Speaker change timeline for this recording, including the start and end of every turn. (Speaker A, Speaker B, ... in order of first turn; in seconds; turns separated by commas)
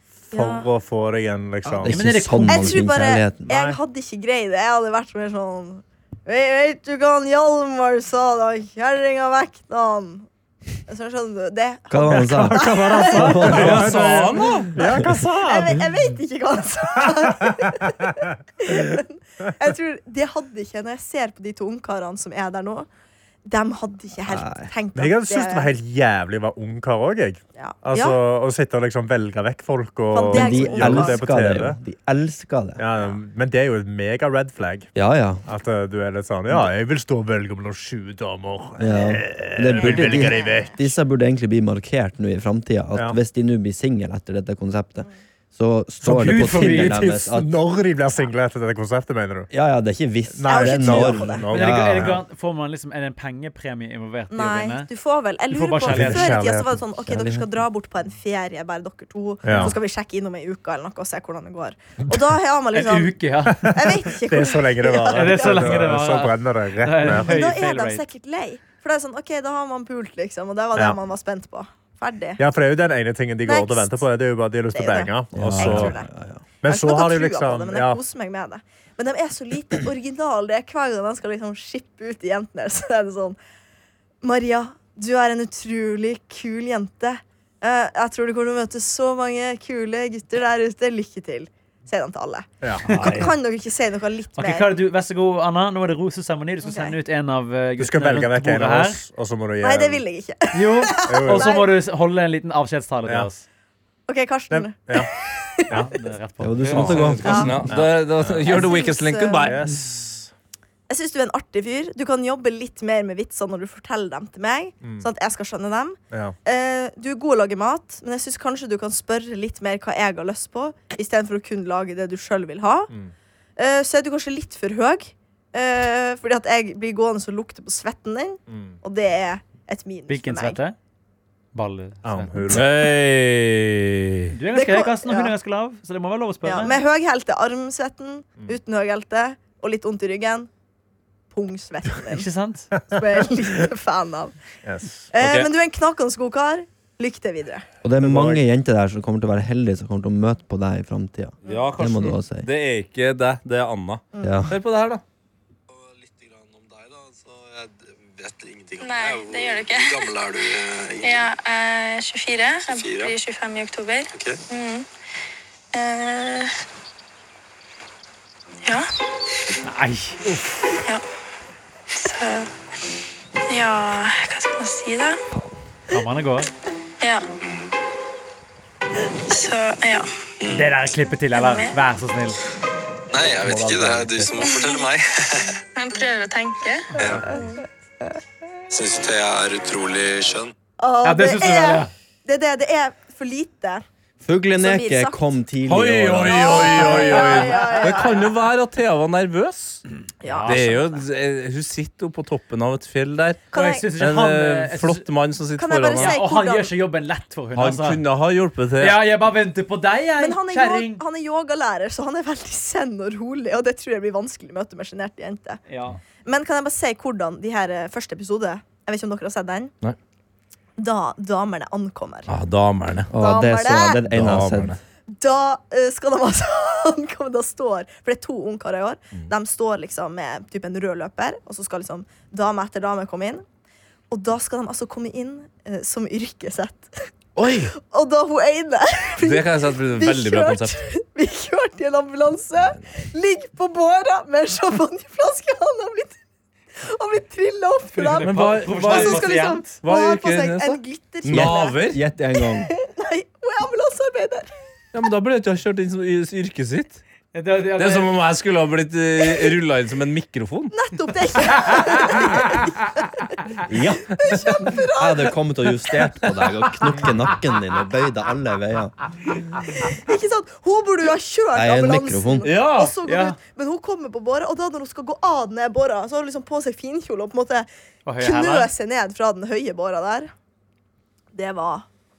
Speaker A: 0.3-1.9, Speaker B: 0.3-0.7, Speaker C: 1.6-3.5, Speaker D: 1.9-2.8, Speaker B: 2.5-10.3, Speaker A: 3.5-3.8, Speaker B: 10.9-13.5, Speaker C: 11.9-15.1, Speaker A: 12.0-15.9, Speaker E: 13.4-14.7, Speaker B: 15.4-22.9, Speaker A: 17.1-18.2, Speaker B: 23.4-25.7, Speaker C: 24.3-24.7, Speaker A: 24.9-31.8, Speaker B: 27.6-28.2, Speaker B: 30.1-31.2, Speaker C: 30.3-32.9, Speaker A: 32.8-34.9, Speaker C: 34.9-35.4, Speaker A: 35.5-40.9, Speaker C: 38.8-47.5, Speaker B: 38.9-39.2, Speaker B: 39.8-40.7, Speaker D: 46.0-47.0, Speaker A: 46.1-49.5, Speaker C: 49.5-52.2, Speaker A: 50.3-52.2, Speaker B: 50.4-51.5, Speaker D: 51.5-54.9, Speaker B: 54.3-65.8, Speaker D: 55.5-56.4, Speaker A: 55.9-56.8, Speaker C: 57.0-57.6, Speaker A: 59.4-59.7, Speaker D: 62.7-63.7, Speaker A: 63.5-67.3, Speaker D: 65.1-68.0, Speaker B: 67.1-72.4, Speaker A: 72.4-75.9, Speaker B: 73.4-74.0, Speaker B: 74.7-76.1, Speaker C: 75.3-76.4, Speaker A: 76.6-78.0, Speaker B: 76.6-83.4, Speaker B: 84.2-94.8, Speaker A: 92.6-93.3, Speaker D: 92.8-93.3, Speaker D: 94.4-99.0, Speaker B: 96.6-97.0, Speaker A: 97.8-100.0, Speaker B: 99.6-101.7, Speaker D: 100.5-103.4, Speaker A: 101.1-101.5, Speaker B: 104.1-105.8, Speaker A: 104.5-105.1, Speaker A: 105.7-106.0, Speaker D: 105.8-107.5, Speaker C: 106.4-107.7, Speaker A: 106.7-107.1, Speaker E: 106.7-109.7, Speaker B: 107.2-107.5, Speaker A: 107.7-108.7, Speaker B: 108.5-109.5, Speaker A: 109.4-110.3, Speaker B: 110.9-122.9, Speaker B: 123.6-130.6, Speaker A: 128.5-128.8, Speaker D: 130.1-130.8, Speaker D: 131.5-132.6, Speaker A: 132.0-132.7, Speaker E: 132.5-134.3, Speaker D: 134.3-136.8, Speaker B: 134.5-135.3, Speaker B: 136.4-140.5, Speaker B: 141.3-142.3, Speaker D: 142.1-142.7, Speaker B: 142.8-144.3, Speaker A: 144.6-145.1, Speaker B: 145.1-147.6, Speaker E: 145.2-145.5, Speaker C: 147.8-152.5, Speaker A: 148.0-148.4, Speaker E: 151.4-155.0, Speaker B: 154.1-154.4, Speaker C: 154.2-154.5, Speaker F: 155.7-161.2, Speaker G: 158.8-160.1, Speaker G: 161.0-164.8, Speaker F: 162.7-163.1, Speaker F: 164.1-164.4, Speaker G: 165.7-166.5, Speaker D: 169.6-170.3, Speaker G: 171.9-172.5, Speaker G: 173.5-175.2, Speaker D: 175.9-176.5, Speaker G: 179.3-180.1, Speaker F: 180.4-180.7, Speaker D: 180.5-182.4, Speaker G: 181.3-181.8, Speaker F: 183.1-185.5, Speaker C: 183.6-184.0, Speaker G: 184.3-184.9, Speaker G: 185.7-187.0, Speaker F: 187.0-187.4, Speaker D: 187.0-187.4, Speaker F: 188.7-190.5, Speaker B: 190.8-193.8, Speaker D: 191.0-191.9, Speaker C: 194.2-197.0, Speaker B: 194.6-195.3, Speaker E: 195.7-199.8, Speaker B: 196.2-198.2, Speaker D: 197.0-198.1, Speaker B: 200.2-200.9, Speaker D: 200.2-200.8, Speaker E: 200.5-206.2, Speaker B: 203.5-203.9, Speaker D: 203.5-205.1, Speaker B: 205.6-206.7, Speaker D: 205.9-208.0, Speaker E: 207.5-209.0, Speaker D: 208.8-211.0, Speaker B: 210.2-215.6, Speaker D: 215.7-216.0, Speaker B: 216.2-219.7, Speaker B: 220.8-222.3, Speaker E: 222.3-223.1, Speaker C: 223.1-224.8, Speaker B: 223.2-224.0, Speaker E: 224.1-224.8, Speaker B: 225.1-233.4, Speaker B: 234.1-237.1, Speaker E: 237.3-237.7, Speaker B: 237.8-246.2, Speaker E: 239.2-240.8, Speaker B: 246.8-251.8, Speaker D: 247.9-249.7, Speaker E: 248.2-252.0, Speaker C: 251.2-252.7, Speaker B: 252.4-254.5, Speaker E: 254.9-257.0, Speaker D: 257.3-258.1, Speaker E: 257.8-260.7, Speaker B: 260.7-263.4, Speaker C: 263.7-264.1, Speaker B: 264.1-265.3, Speaker C: 265.0-269.1, Speaker B: 269.9-277.7, Speaker C: 271.5-272.5, Speaker E: 272.4-272.9, Speaker D: 272.8-273.4, Speaker D: 278.0-278.7, Speaker B: 278.2-280.3, Speaker B: 281.3-281.9